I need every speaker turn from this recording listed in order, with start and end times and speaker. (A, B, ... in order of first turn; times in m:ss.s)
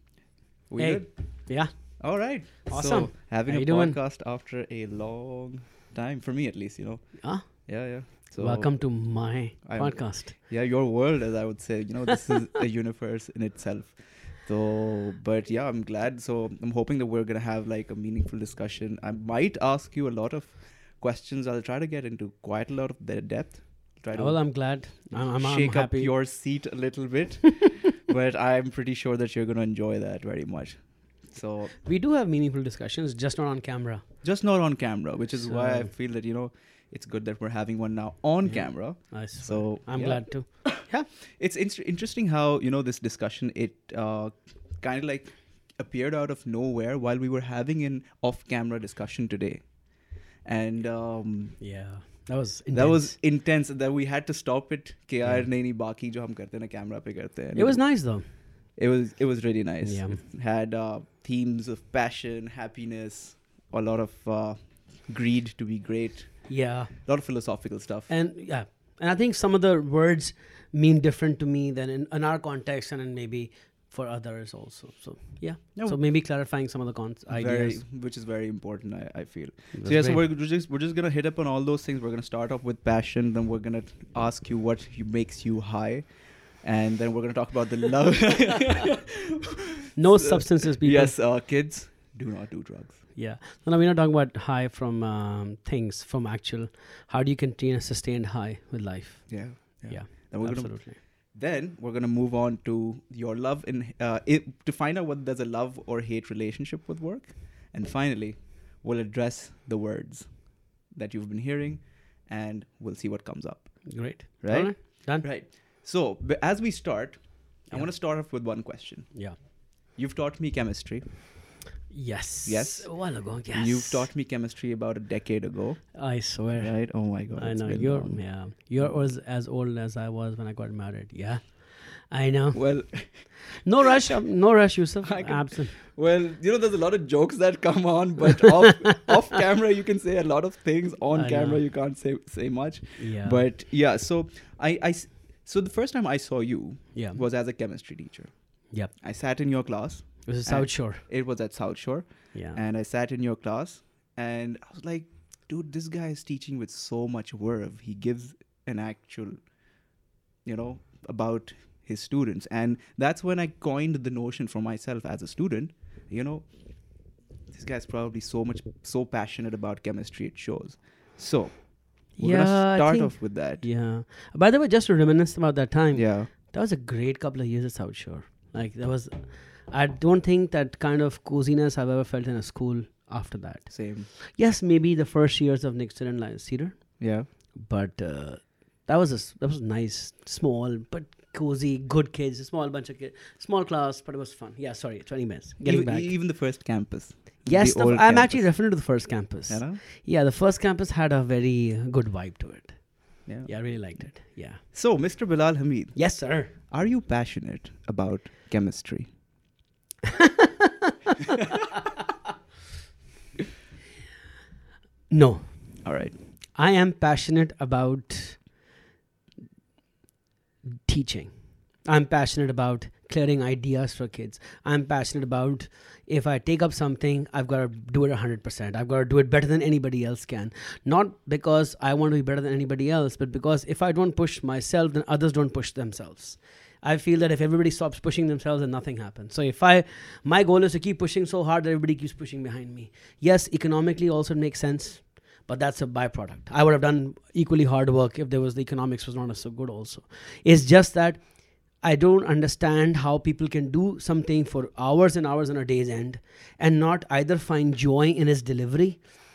0:00.7-0:31.8 A
0:00.8-0:04.0 B
0:07.2-0:10.4 B
0:24.1-0:26.1 B
0:31.8-0:34.0 B
0:34.2-0:49.9 A
0:35.4-0:35.9 B
0:38.4-0:41.1 B
0:50.4-0:51.6 A
0:51.6-0:53.2 B
0:52.7-0:57.8 A
0:57.5-0:58.3 B
0:58.8-1:08.1 A
0:59.8-1:00.2 B
1:06.5-1:06.9 B
1:08.1-1:17.8 B
1:17.3-1:26.1 A
1:19.7-1:20.2 B
1:26.6-1:33.0 A
1:30.0-1:31.2 B
1:33.2-1:41.0 B
1:39.3-1:59.2 A
1:53.9-1:55.3 B
1:59.9-2:01.6 A
2:01.9-2:04.1 B
2:02.4-2:09.1 A
2:06.0-2:15.8 B
2:12.5-2:13.6 A
2:15.0-2:39.5 A
2:21.1-2:21.6 B
2:23.0-2:23.4 B
2:26.9-2:27.2 B
2:30.3-2:31.0 B
2:32.3-2:32.6 B
2:40.4-2:46.5 A
2:47.5-2:53.7 A
2:52.2-3:16.2 B
2:55.9-2:56.3 A
3:03.7-3:04.1 A
3:07.0-3:07.3 A
3:15.6-3:18.8 A
3:17.5-3:24.6 B
3:19.5-3:19.8 A
3:23.3-3:29.1 A
3:26.0-3:26.5 B
3:30.2-3:30.7 B
3:35.1-3:35.8 B
3:35.8-3:36.2 A
3:36.6-3:38.4 B
3:40.8-3:41.3 B
3:41.8-4:19.1 B